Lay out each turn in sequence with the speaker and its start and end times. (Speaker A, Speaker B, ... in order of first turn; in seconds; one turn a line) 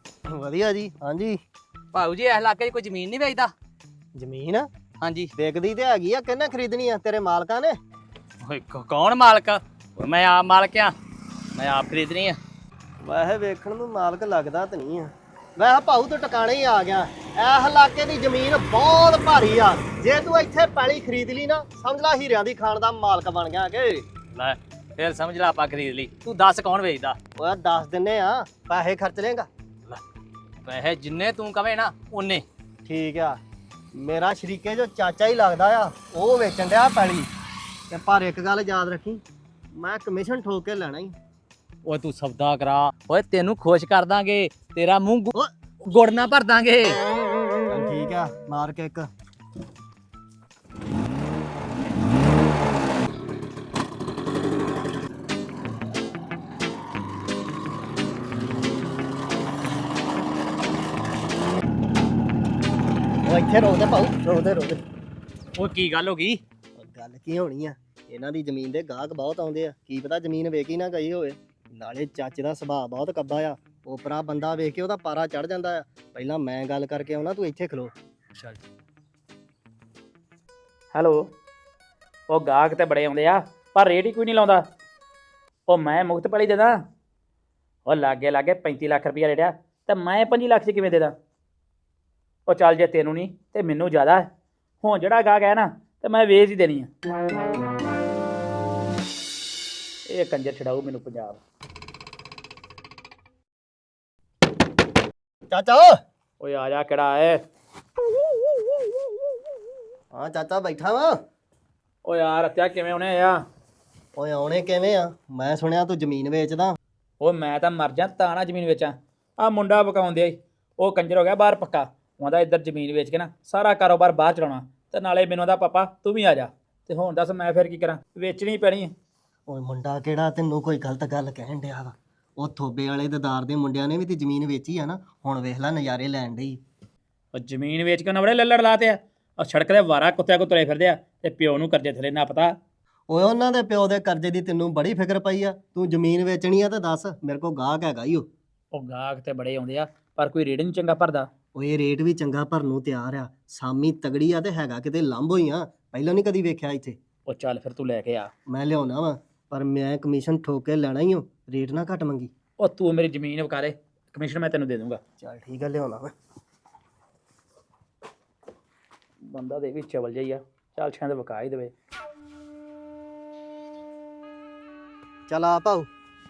Speaker A: 0.3-1.4
Speaker B: 1.9-3.5
Speaker A: 4.1-4.7
Speaker B: 5.0-5.3
Speaker A: 5.3-7.8
Speaker B: 8.4-10.9
Speaker B: 11.5-12.4
Speaker A: 13.0-24.0
Speaker B: 24.3-27.2
Speaker A: 27.4-29.5
Speaker B: 30.6-32.4
Speaker A: 32.8-33.4
Speaker A: 33.9-37.3
Speaker A: 37.9-39.2
Speaker A: 39.7-41.1
Speaker B: 41.8-45.3
Speaker B: 45.8-47.0
Speaker A: 47.7-49.1
Speaker A: 63.2-64.8
Speaker B: 65.6-66.4
Speaker A: 66.8-77.9
Speaker C: 80.9-81.3
Speaker C: 82.3-84.6
Speaker C: 85.7-86.8
Speaker C: 87.8-91.1
Speaker C: 92.5-94.3
Speaker C: 94.8-96.9
Speaker C: 100.1-101.4
Speaker A: 105.5-106.0
Speaker C: 106.4-107.4
Speaker A: 110.1-111.2
Speaker C: 112.0-113.4
Speaker A: 114.2-116.8
Speaker C: 117.2-128.9
Speaker A: 129.5-136.6
Speaker C: 137.3-142.5
Speaker A: 143.1-148.3
Speaker C: 148.7-151.3
Speaker A: 151.5-157.0
Speaker C: 157.3-158.3
Speaker A: 158.5-162.3
Speaker C: 162.6-165.0
Speaker A: 165.2-166.1
Speaker C: 169.2-171.7
Speaker A: 175.3-175.9